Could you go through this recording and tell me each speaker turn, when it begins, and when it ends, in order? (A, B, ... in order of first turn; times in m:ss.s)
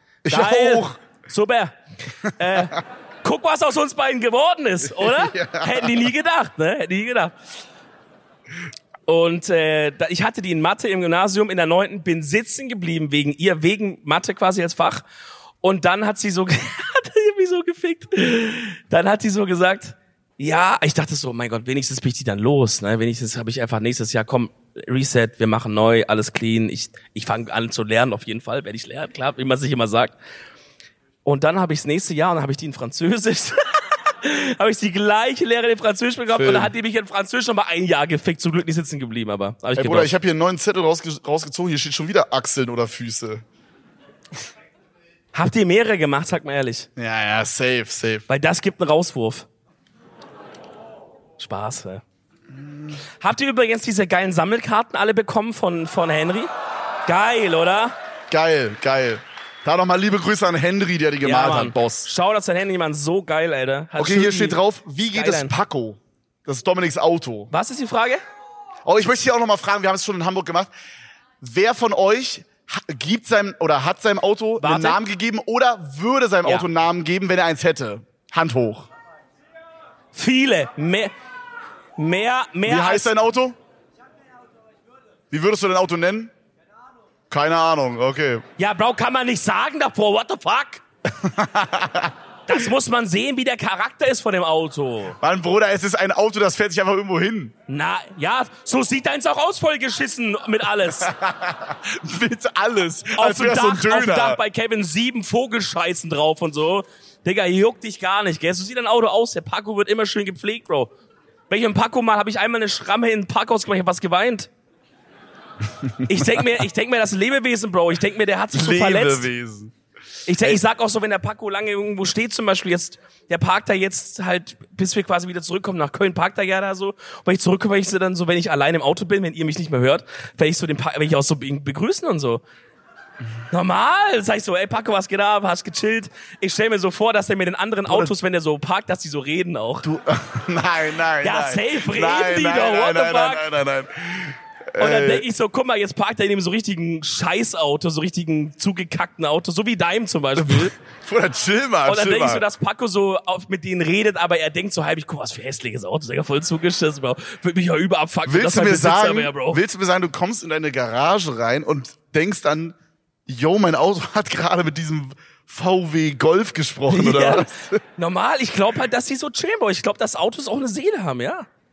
0:00.2-0:01.0 A
0:00.2-0:01.8 B
0:02.4-0:07.3 B
0:04.8-0:06.0 A
0:09.1-0:15.0 B
0:15.6-0:30.1 B
0:31.2-0:40.1 B
0:36.3-0:36.7 A
0:39.8-0:43.4 A
0:45.3-0:46.9 B
0:47.0-0:48.3 A
0:48.3-0:49.5 B
0:51.4-0:52.0 B
0:52.5-0:53.0 A
0:53.2-0:56.5 B
0:57.1-0:58.0 B
0:58.3-1:02.1 A
1:01.2-1:04.6 B
1:04.0-1:07.5 A
1:05.1-1:05.6 B
1:07.5-1:08.2 B
1:08.8-1:10.7 A
1:11.4-1:18.9 A
1:14.6-1:15.0 B
1:20.1-1:21.1 B
1:22.0-1:23.1 B
1:22.7-1:23.6 A
1:25.3-1:26.3 A
1:27.3-1:28.4 A
1:28.6-1:30.8 B
1:31.1-1:32.2 A
1:32.5-1:35.2 B
1:35.2-1:37.5 A
1:37.7-1:41.1 B
1:41.0-1:44.4 A
1:43.2-1:50.9 B
1:51.5-1:54.5 B
1:55.8-1:56.6 A
1:56.1-1:59.3 B
1:58.5-1:59.7 A
2:00.3-2:12.4 B
2:13.5-2:19.9 B
2:19.8-2:25.3 A
2:21.2-2:23.4 B
2:24.8-2:30.8 B
2:30.4-2:32.4 A
2:31.9-2:39.6 B
2:38.3-2:42.8 A
2:43.3-2:47.8 A
2:46.9-2:51.5 B